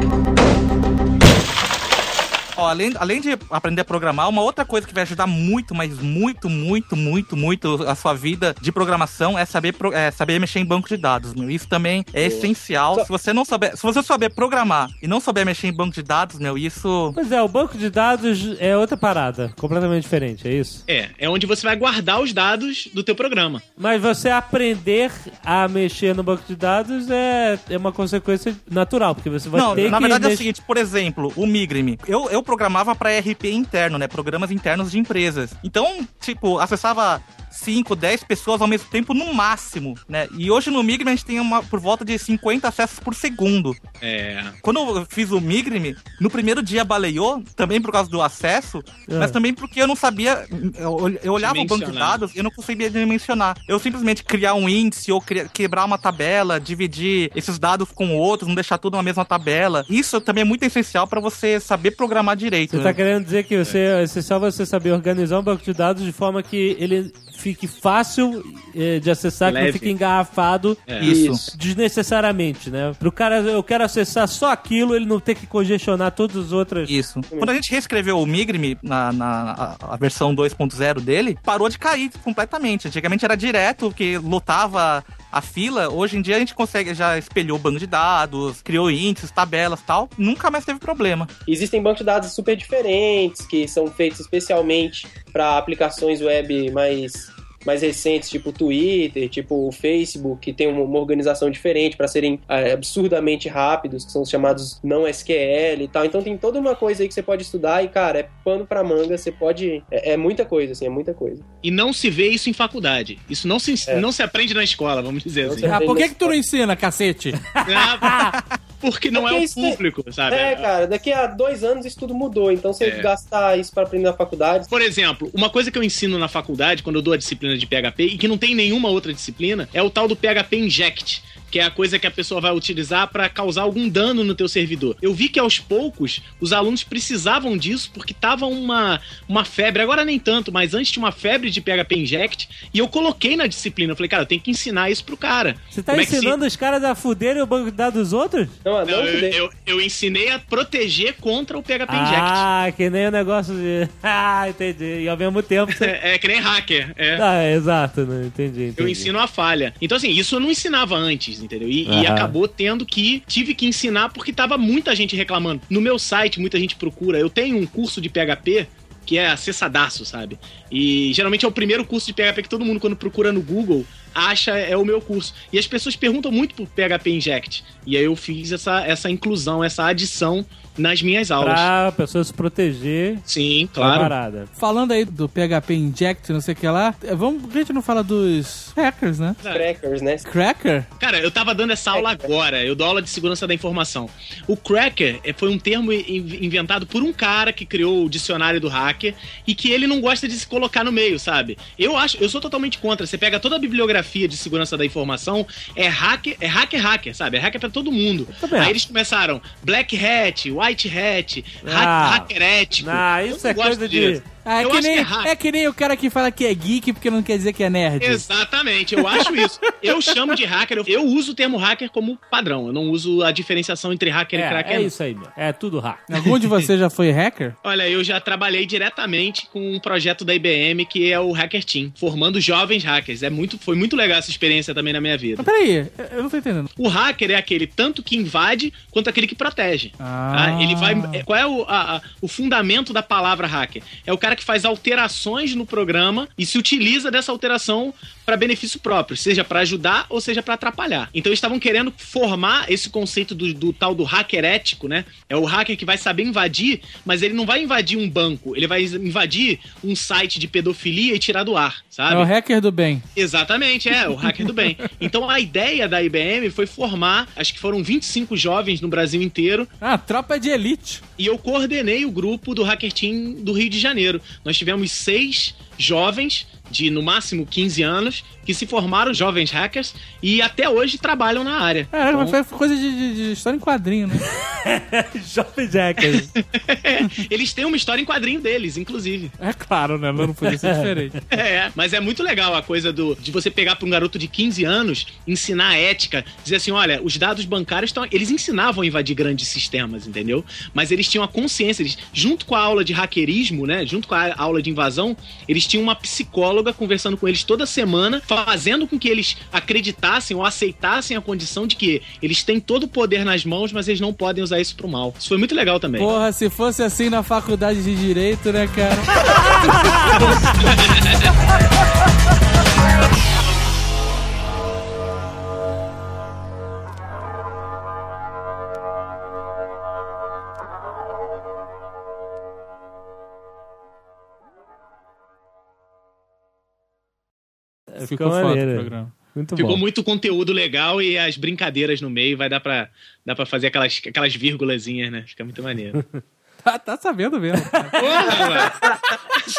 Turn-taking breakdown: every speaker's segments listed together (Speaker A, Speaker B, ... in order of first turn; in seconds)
Speaker A: 2.5-17.2, 29.5-43.8, 44.6-63.0, 71.0-71.4, 76.9-91.3
Speaker B: 17.1-20.8, 23.8-30.5, 49.1-49.4, 62.7-70.8, 71.5-76.9, 117.5-118.3, 145.7-148.6, 151.9-155.9, 157.2-159.1, 161.8-162.3, 181.4-183.2, 183.8-184.5, 208.3-208.8, 211.6-214.2, 224.3-226.1, 284.2-286.3, 290.4-291.1, 337.9-339.8
Speaker C: 20.9-23.6, 44.0-44.6, 51.4-52.2, 69.4-69.9, 70.9-71.2, 111.6-115.7, 117.6-120.7, 122.8-123.1, 124.7-146.4, 148.8-152.4, 155.7-157.2, 158.8-181.7, 183.3-184.1, 189.4-189.7, 191.0-215.3, 218.0-225.0, 227.6-235.5, 236.8-262.3, 263.1-269.7, 271.2-282.3, 286.1-289.3, 291.3-316.1, 339.6-346.0, 348.0-348.8
Speaker D: 71.0-71.5, 91.5-111.4, 115.4-116.4, 119.1-124.7, 148.6-149.4, 189.5-190.2, 191.9-192.3, 348.3-349.0
Speaker E: 115.6-117.4, 184.5-189.4, 190.2-190.9, 214.4-218.2, 226.1-227.5, 235.4-236.7, 240.0-241.2, 262.1-263.0, 264.3-264.5, 269.8-271.0, 281.9-284.3, 289.4-291.2, 316.0-319.3, 338.0-339.1, 346.6-348.1